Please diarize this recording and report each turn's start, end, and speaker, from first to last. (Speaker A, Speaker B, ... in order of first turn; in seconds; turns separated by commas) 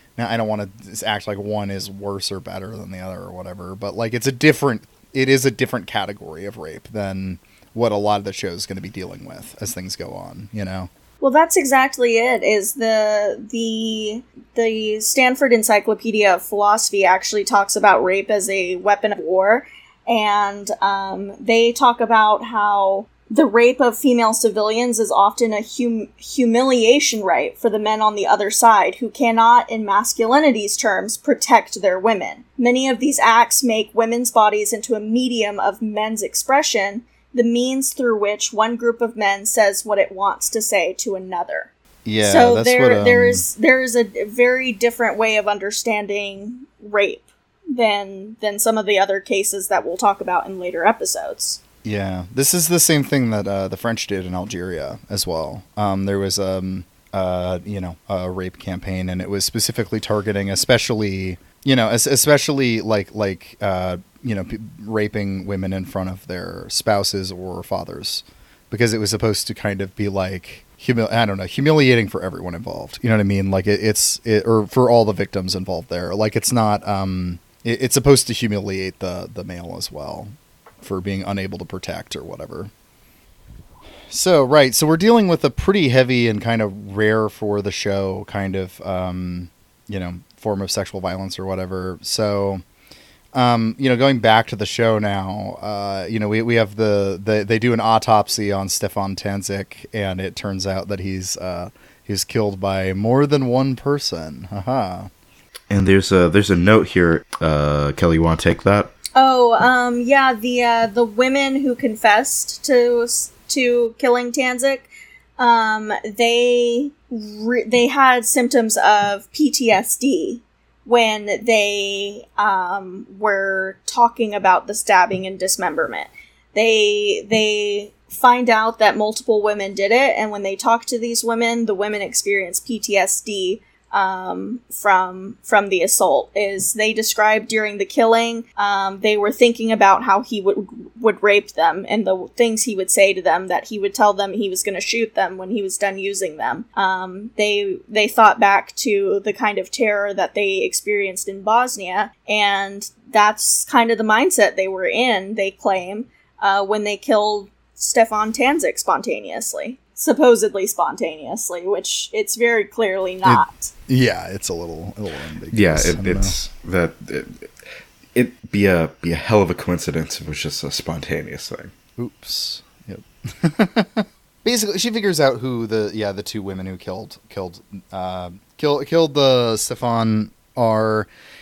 Speaker A: 0.2-10.9, Speaker B: 11.2-41.7, Speaker A: 42.1-43.5, Speaker B: 42.2-51.6, Speaker A: 51.8-82.7, Speaker A: 84.1-92.6, Speaker A: 93.3-105.1, Speaker C: 105.7-108.9, Speaker B: 109.2-163.7, Speaker A: 163.2-166.4, Speaker C: 165.5-167.5, Speaker C: 168.2-171.7, Speaker A: 172.0-181.1